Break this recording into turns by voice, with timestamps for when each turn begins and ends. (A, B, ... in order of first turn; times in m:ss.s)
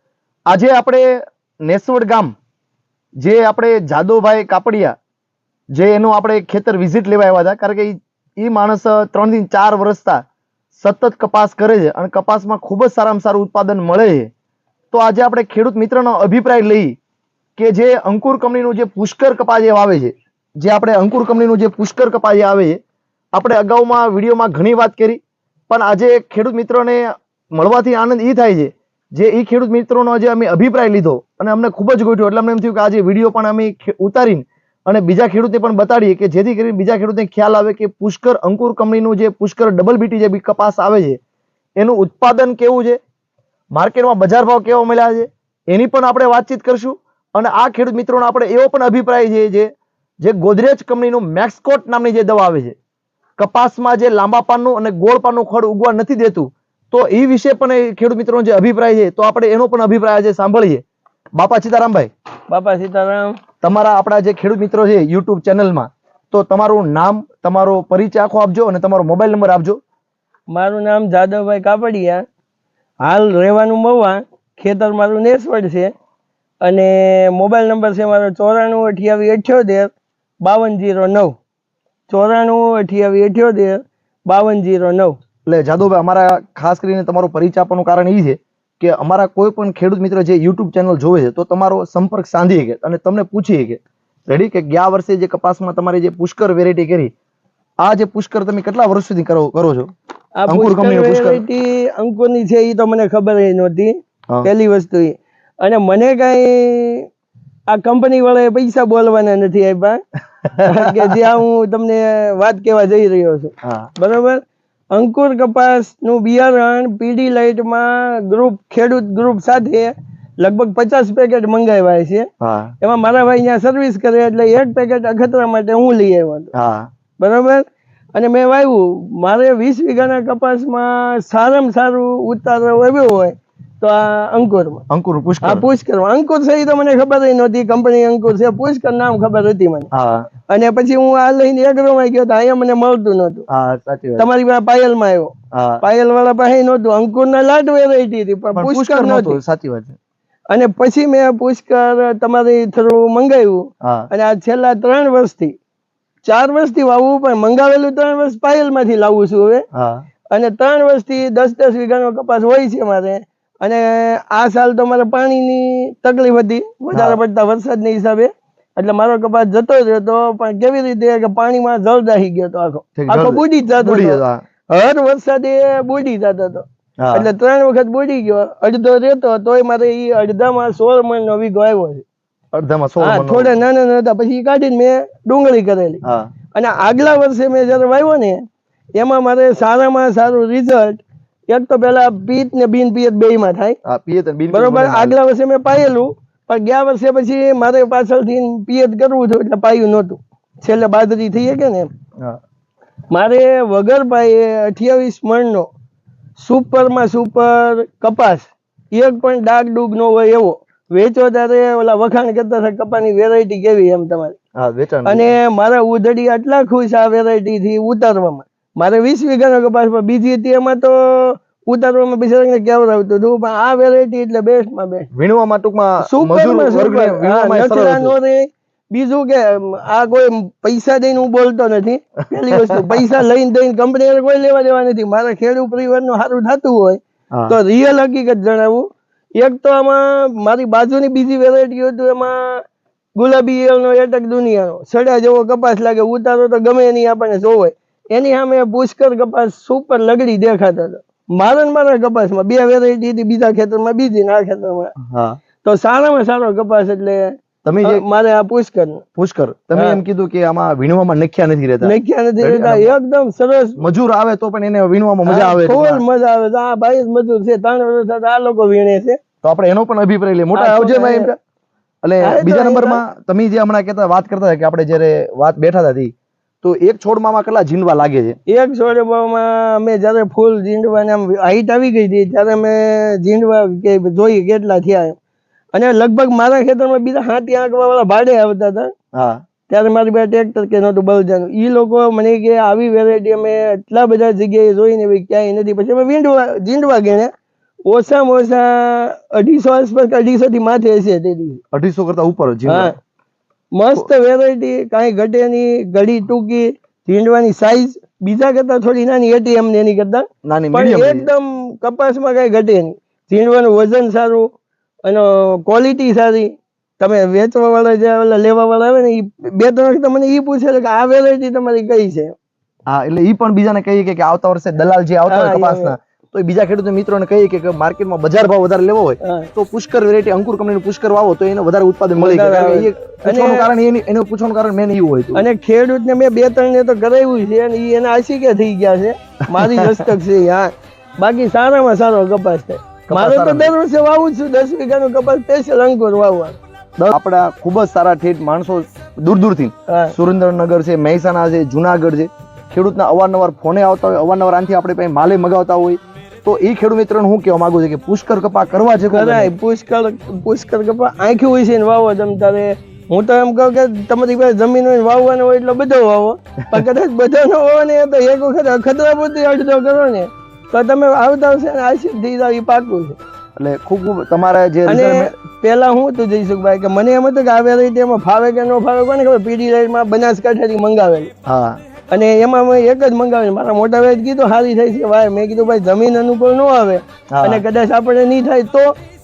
0:00.5-0:02.3 A
0:03.2-0:05.0 A
0:05.7-0:10.2 A
0:10.8-0:14.3 A
0:14.9-0:17.0 A
0:17.6-0:22.8 A
0:23.3-0:41.2 A
0:41.8-0:43.0 A
0:43.7-0:52.8 A
0:53.4-1:00.8 A
1:01.4-1:02.1 A
1:02.5-1:03.4 B
1:03.6-1:09.8 A
1:10.5-1:12.3 B
1:13.0-1:15.9 B
1:16.6-1:21.4 B
1:22.1-1:25.2 B
1:25.5-1:37.1 A
1:37.8-1:39.9 A
1:40.4-1:47.1 B
1:40.5-1:41.4 A
1:47.7-1:50.0 B
1:50.4-1:51.3 A
1:50.6-2:02.3 B
1:53.6-1:53.9 A
2:02.4-2:02.7 A
2:02.8-2:06.5 B
2:06.5-2:06.9 A
2:07.2-2:14.8 B
2:14.9-2:15.7 A
2:15.4-2:19.9 B
2:19.9-2:20.3 A
2:20.5-2:23.5 B
2:23.5-2:24.3 A
2:24.2-2:29.4 B
2:25.5-2:25.8 A
2:28.6-2:30.0 A
2:30.5-2:35.6 B
2:33.8-2:34.1 A
2:36.2-2:39.6 B
2:39.7-2:40.0 A
2:40.3-3:02.0 B
2:46.9-2:47.2 A
2:53.0-2:54.4 A
2:57.0-2:57.3 A
3:02.5-3:03.5 A
3:03.0-3:06.0 B
3:06.0-3:06.3 A
3:06.5-3:08.4 B
3:09.0-3:13.8 B
3:13.8-3:15.2 A
3:14.5-3:21.9 B
3:23.1-3:25.7 B
3:26.4-3:34.4 B
3:34.6-3:35.3 A
3:35.0-3:45.1 B
3:45.1-3:48.2 A
3:46.0-4:02.6 B
3:52.6-3:53.0 A
3:57.3-3:57.6 A
4:03.2-4:14.9 B
4:15.0-4:15.4 A
4:15.6-4:19.0 B
4:17.6-4:18.0 A
4:19.2-4:23.0 A
4:19.7-4:20.0 B
4:21.8-4:23.8 B
4:23.8-4:26.0 A
4:25.3-4:29.2 B
4:29.4-4:31.4 A
4:30.6-4:31.3 B
4:32.0-4:38.4 A
4:32.2-4:33.0 B
4:38.5-4:45.2 B
4:45.7-4:48.9 B
4:49.1-4:49.4 A
4:49.7-4:57.3 B
4:57.9-5:01.6 B
5:01.7-5:02.9 A
5:02.7-5:03.0 B
5:03.7-5:14.5 B
5:10.4-5:11.3 A
5:15.0-5:22.4 B
5:22.9-5:35.4 A
5:25.3-5:26.0 B
5:29.2-5:29.5 B
5:32.2-5:33.7 B
5:35.4-5:46.6 B
5:39.6-5:40.1 A
5:43.1-5:43.7 A
5:47.0-5:59.5 A
5:49.9-5:50.2 B
5:59.1-6:13.2 B
6:13.6-6:15.3 A
6:14.9-6:21.3 B
6:21.5-6:21.8 A
6:22.1-6:28.9 B
6:27.3-6:27.6 A